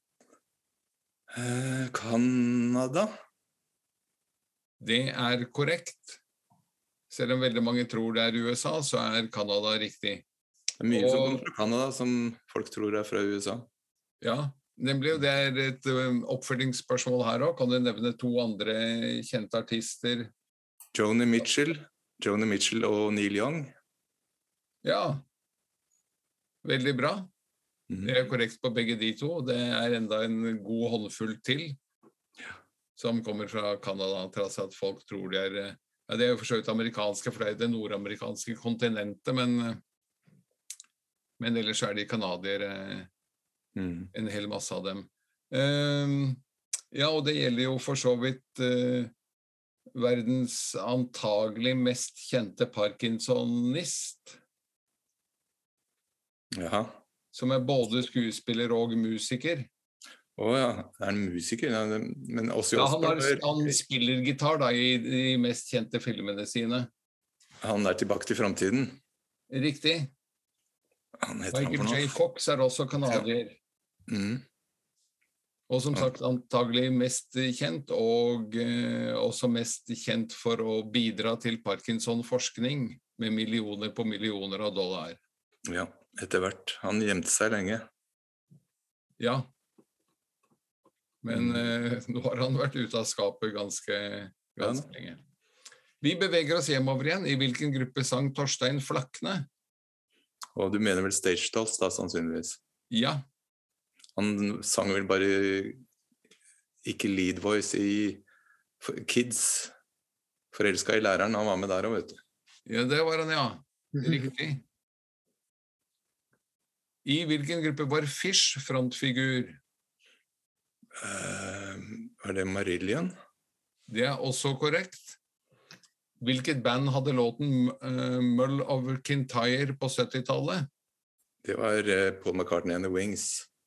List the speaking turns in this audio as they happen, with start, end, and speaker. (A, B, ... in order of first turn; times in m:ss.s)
0:01.3-0:03.1 A
0:04.8-0:06.2 B
0:07.1-0:10.2 B
0:10.8-0:13.7 A
0:10.9-0:11.4 B
0:14.2-0:20.3 B
0:20.9-0:23.7 A
0:24.8-0:25.2 B
0:26.6-0:27.3 B
0:27.9-0:28.2 A
0:28.0-0:31.8 B
0:33.0-0:39.8 B
0:41.4-0:43.1 B
0:43.8-0:44.1 A
0:44.1-0:46.4 B
0:46.9-0:49.1 B
0:49.9-0:54.4 B
0:56.5-0:57.0 A
0:57.3-0:59.7 B
1:00.4-1:03.8 A
1:02.8-1:06.9 B
1:07.6-1:09.0 A
1:09.5-1:10.1 B
1:11.2-1:12.2 A
1:11.5-1:13.6 B
1:14.1-1:14.4 A
1:15.7-1:25.2 B
1:25.7-1:27.9 A
1:29.2-1:29.5 B
1:31.2-1:35.2 B
1:31.3-1:31.7 A
1:34.6-1:34.9 A
1:36.0-1:39.5 B
1:40.6-1:42.6 A
1:42.9-1:43.2 B
1:44.2-1:45.8 A
1:46.8-1:48.2 A
1:48.8-1:49.7 A
1:50.5-1:52.2 A
1:52.7-1:54.6 B
1:57.0-1:59.6 B
2:01.0-2:03.1 A
2:03.9-2:05.2 B
2:06.2-2:10.7 B
2:11.4-2:13.5 A